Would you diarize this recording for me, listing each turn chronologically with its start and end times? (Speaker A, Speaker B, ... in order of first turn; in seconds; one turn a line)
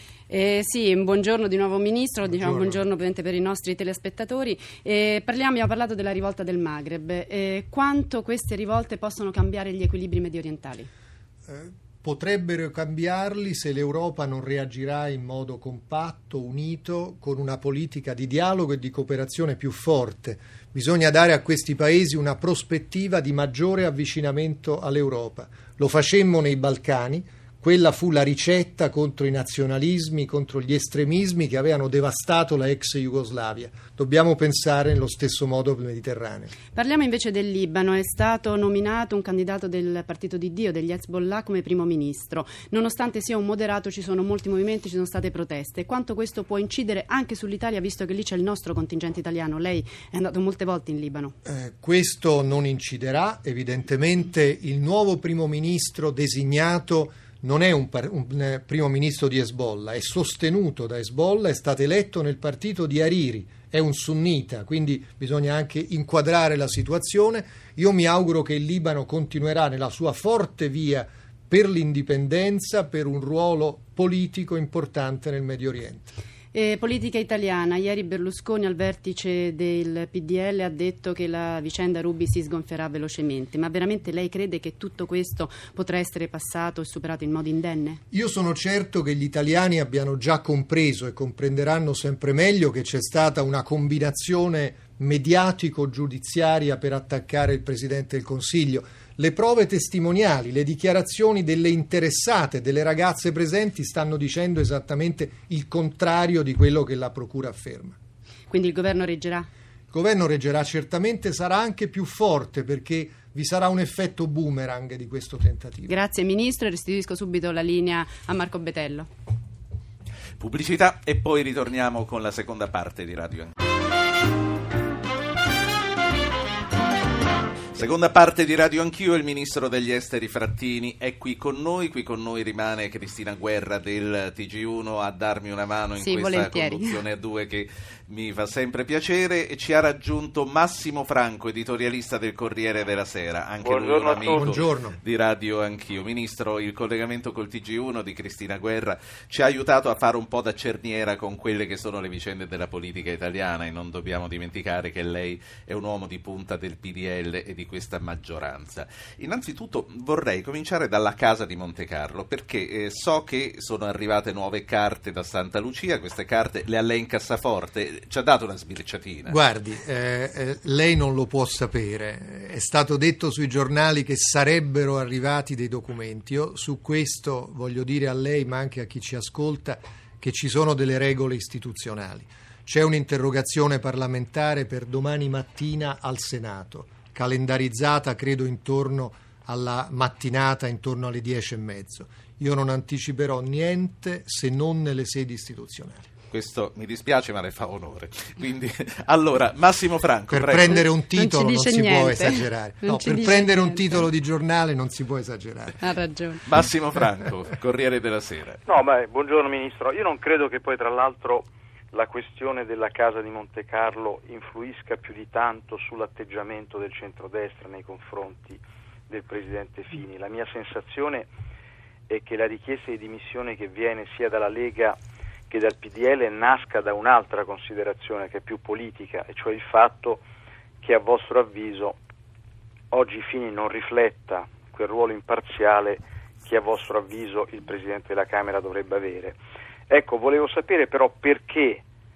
Speaker A: 0.3-10.9
Speaker B: 2.3-2.8
Speaker B: 11.5-36.5
Speaker A: 36.7-51.4
Speaker B: 51.4-76.1
Speaker A: 76.5-88.0
Speaker B: 88.1-108.0
Speaker A: 108.5-109.5
Speaker B: 109.9-115.9
Speaker A: 115.9-119.1
Speaker C: 120.4-123.5
Speaker C: 127.8-169.4
Speaker A: 136.0-137.0
Speaker D: 143.6-144.5
Speaker B: 144.3-145.0
Speaker B: 169.3-196.1
Speaker C: 196.3-200.8
Speaker B: 200.3-205.8
Speaker A: 201.1-204.1
Speaker A: 205.8-206.4
Speaker C: 206.5-208.6
Speaker D: 208.7-221.3
Speaker D: 222.1-225.0
Speaker D: 225.5-230.2
Speaker D: 230.8-232.0
Speaker D: 232.9-241.8